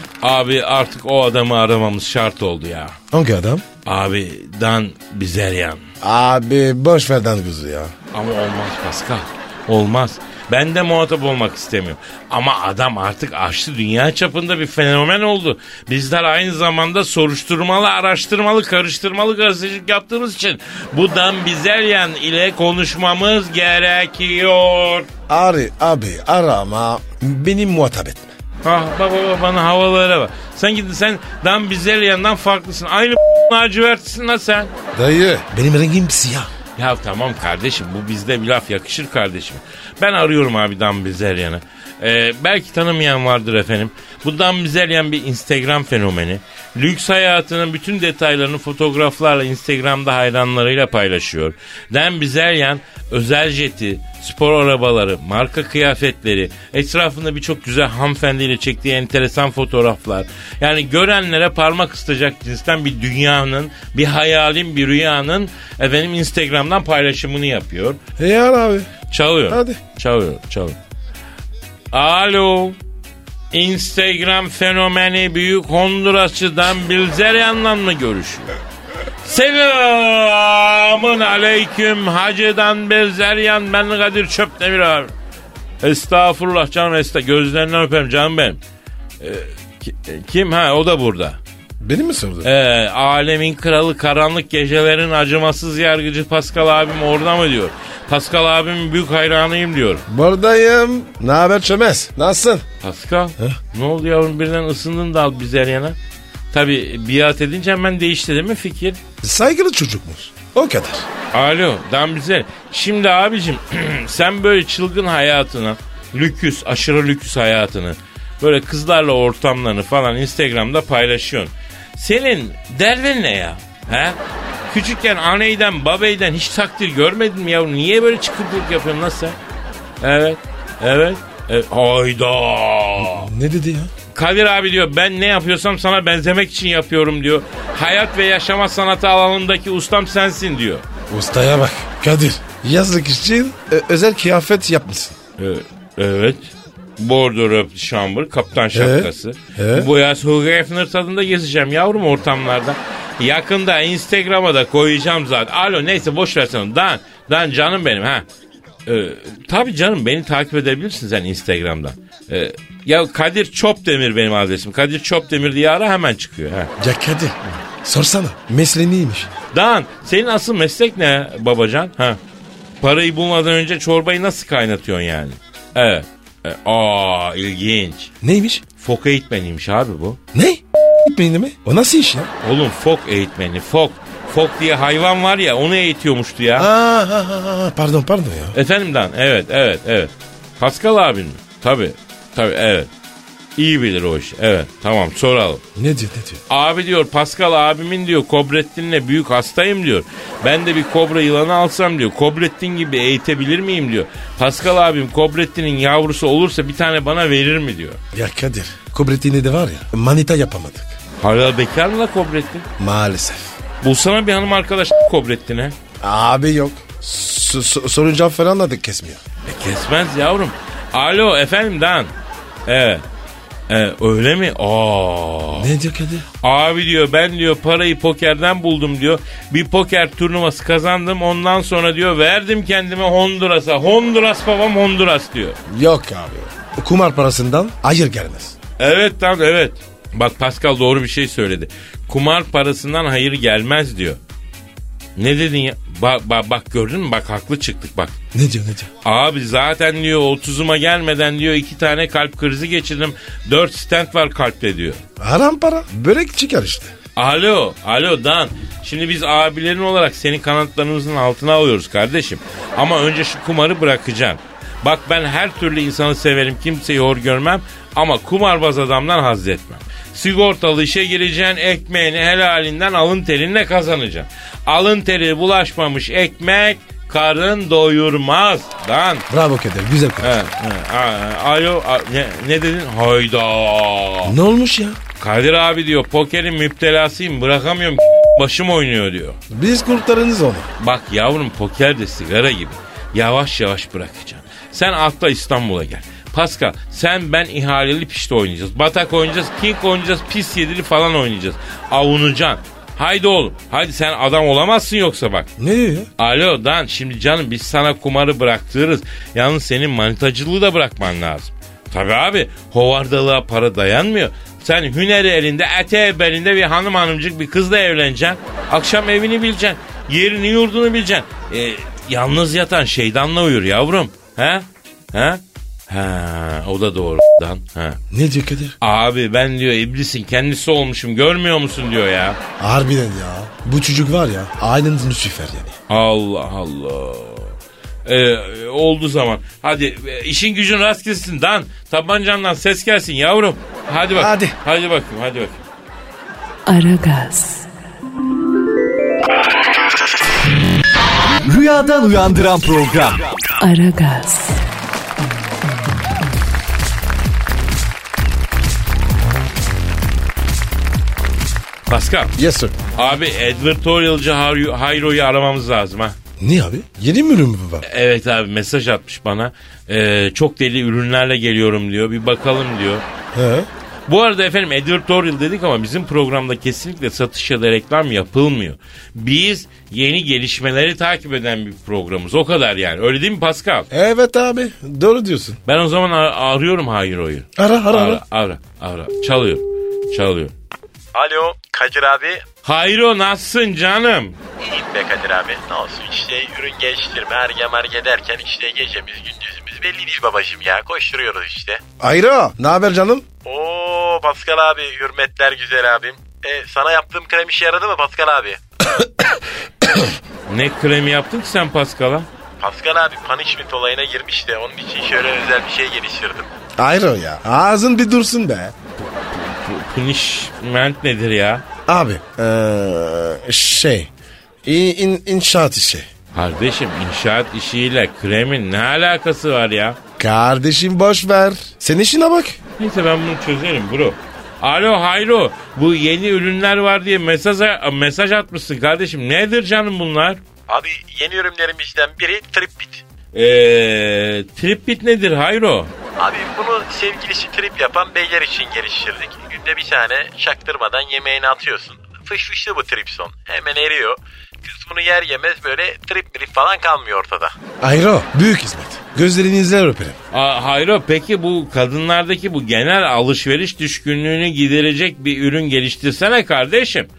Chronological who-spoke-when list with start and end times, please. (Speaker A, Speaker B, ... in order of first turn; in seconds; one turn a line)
Speaker A: 0.2-3.0
Speaker B: 3.1-3.6
Speaker A: 3.8-5.8
Speaker B: 6.0-7.9
Speaker A: 8.1-25.1
Speaker B: 25.3-28.3
Speaker A: 28.6-34.7
Speaker B: 34.9-36.5
Speaker A: 36.8-68.0
Speaker B: 68.2-68.9
Speaker A: 69.1-70.8
Speaker B: 69.5-69.8
Speaker A: 71.9-72.8
Speaker A: 73.5-78.5
Speaker A: 79.2-85.1
Speaker A: 85.8-88.6
Speaker A: 89.2-91.4
Speaker B: 91.8-92.5
Speaker A: 92.4-100.0
Speaker B: 100.1-102.7
Speaker A: 102.8-106.0
Speaker A: 106.5-109.0
Speaker B: 109.2-111.1
Speaker A: 111.3-129.4
Speaker A: 130.0-133.3
Speaker B: 133.0-133.9
Speaker A: 134.1-140.8
Speaker B: 141.1-145.2
Speaker A: 145.4-158.2
Speaker B: 148.7-149.9
Speaker A: 158.8-166.7
Speaker B: 166.8-169.3
Speaker A: 169.5-172.2
Speaker A: 172.8-178.1
Speaker B: 178.2-178.6
Speaker A: 178.8-180.2
Speaker B: 180.3-182.3
Speaker A: 182.4-186.7
Speaker B: 186.6-188.6
Speaker A: 188.5-192.9
Speaker A: 193.6-195.6
Speaker B: 195.8-196.4
Speaker A: 196.5-208.0
Speaker B: 208.1-210.9
Speaker A: 211.2-212.7
Speaker B: 212.8-213.5
Speaker A: 213.8-215.8
Speaker B: 216.0-219.2
Speaker A: 219.4-222.1
Speaker A: 222.7-223.0
Speaker A: 223.7-225.7
Speaker B: 225.5-226.3
Speaker A: 226.4-235.6
Speaker B: 235.7-238.6
Speaker A: 238.8-244.2
Speaker A: 245.2-248.1
Speaker B: 248.3-248.9
Speaker A: 249.0-255.0
Speaker B: 255.2-256.9
Speaker A: 257.1-279.2
Speaker B: 279.3-280.4
Speaker A: 280.2-284.3
Speaker B: 284.2-285.0
Speaker A: 285.2-289.4
Speaker B: 289.5-290.7
Speaker A: 290.8-305.5
Speaker B: 305.6-306.1
Speaker A: 306.2-328.0
Speaker B: 328.1-328.8
Speaker A: 328.8-332.4
Speaker B: 332.6-335.8
Speaker A: 335.9-345.6
Speaker B: 344.1-344.5
Speaker C: 346.6-347.7
Speaker D: 351.4-353.4
Speaker C: 353.6-354.6
Speaker A: 361.9-362.3
Speaker B: 362.4-362.7
Speaker A: 362.9-366.1
Speaker B: 366.4-367.8
Speaker A: 367.8-373.0
Speaker B: 373.3-373.7
Speaker A: 374.1-383.9
Speaker B: 383.9-385.6
Speaker A: 385.6-390.5
Speaker B: 387.6-388.2
Speaker E: 391.1-392.4
Speaker A: 392.6-394.4
Speaker E: 394.6-401.8
Speaker B: 402.0-403.2
Speaker E: 403.4-408.6
Speaker B: 408.9-410.1
Speaker A: 410.5-412.3
Speaker E: 412.6-416.5
Speaker B: 416.8-418.7
Speaker A: 419.0-421.6
Speaker B: 421.9-424.1
Speaker B: 424.6-426.1
Speaker A: 426.3-430.0
Speaker B: 430.2-432.6
Speaker A: 432.8-440.4
Speaker E: 440.7-443.0
Speaker A: 443.3-445.9
Speaker E: 446.2-457.5
Speaker B: 457.8-460.2
Speaker A: 460.3-467.1